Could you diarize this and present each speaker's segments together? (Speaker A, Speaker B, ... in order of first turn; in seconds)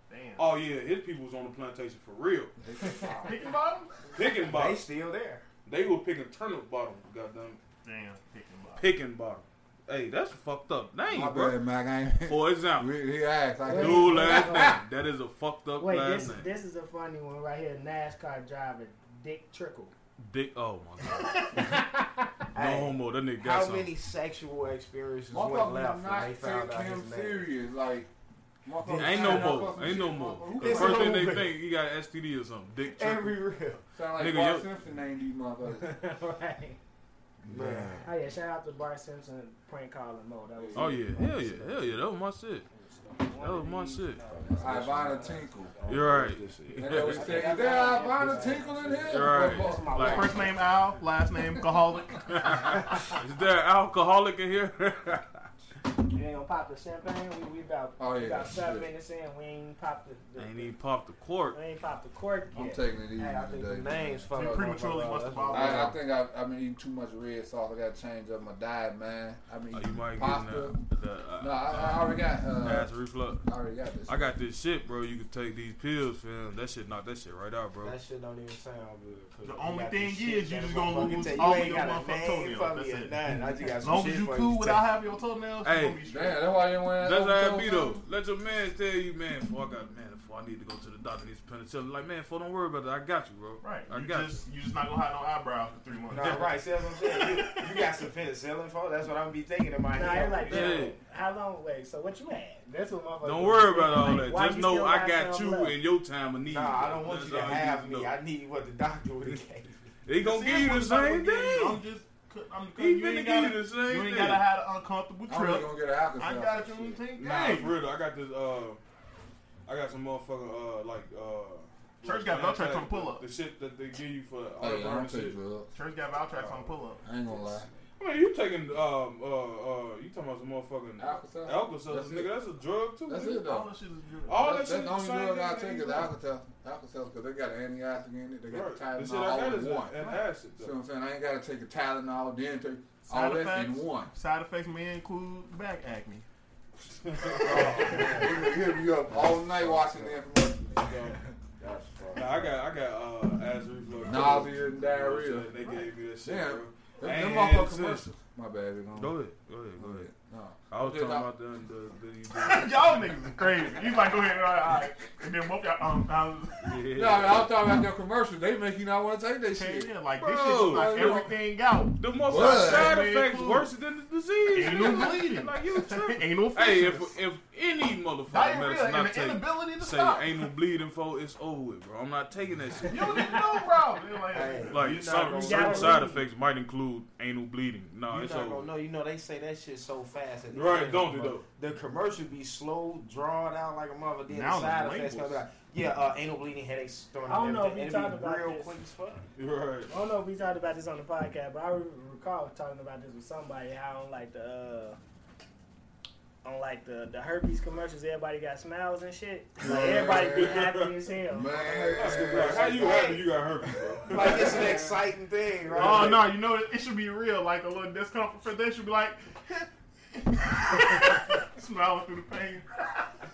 Speaker A: 0.1-0.5, 3.2-4.1, 7.8-8.9, 50.0-52.8, 64.3-66.0, 79.4-83.2, 83.8-86.4, 93.6-96.6, 110.2-117.7, 122.0-123.2, 125.7-127.1, 133.1-134.6, 143.1-146.3, 155.6-155.9, 162.3-166.8, 169.5-173.7, 174.5-177.2, 178.3-180.4, 182.8-184.9, 194.3-195.4, 215.7-223.1
Speaker B: 0.4-2.5, 4.1-4.9, 5.7-7.6, 8.8-11.6, 12.2-12.9, 13.7-16.5, 20.2-21.7, 22.6-23.9, 29.0-33.5, 34.1-34.7, 40.8-42.7, 43.4-44.2, 45.9-47.5, 49.1-50.5, 52.3-55.5, 60.4-61.6, 69.7-73.5, 74.1-78.0, 85.6-86.0, 86.9-94.4, 96.2-96.5, 100.5-101.0, 103.2-108.1, 110.0-111.8, 112.8-114.5, 117.2-118.8, 119.7-125.4, 128.0-133.4, 134.3-136.1, 138.5-140.7, 147.1-148.2, 150.8-151.2, 152.1-158.2, 159.0-160.1, 160.7-163.8, 166.6-167.6, 170.2-171.4, 172.0-183.4, 184.7-188.7, 190.5-191.4, 199.4-199.9, 209.7-210.9, 211.9-214.8
Speaker C: 2.6-3.2, 11.1-14.8, 25.3-28.1, 28.6-31.3, 34.0-35.9, 37.5-38.0, 40.6-41.1, 44.5-45.7, 46.7-50.2, 58.0-58.9, 62.5-64.7, 65.5-70.8, 71.4-72.9, 73.4-74.3, 86.1-88.0, 115.3-116.9, 124.6-125.7, 127.0-127.7, 131.0-132.3, 133.1-133.7, 134.4-140.1, 140.6-144.1, 147.4-150.9, 154.0-155.5, 156.2-159.1, 159.8-161.3, 166.9-169.9, 170.7-171.3, 172.2-173.0, 209.6-210.7, 211.3-213.0, 214.2-215.0
Speaker D: 4.3-5.5, 22.5-27.5, 28.8-29.8, 30.6-31.6, 32.9-33.8, 37.5-38.1, 41.2-41.9, 43.4-50.2, 63.1-66.0, 77.8-84.9, 96.1-101.0, 106.5-109.7, 147.5-148.4, 149.1-150.2, 151.6-152.6, 184.3-186.1, 188.1-199.3, 212.3-213.3, 214.1-216.3
Speaker E: 13.7-14.8, 15.8-19.9, 21.6-22.3, 35.8-36.8, 38.0-41.3, 42.7-44.3, 47.6-48.6, 49.6-50.1, 56.1-60.8, 61.5-62.9, 99.9-105.8, 185.3-186.2, 197.3-198.7, 199.9-205.0, 206.4-212.2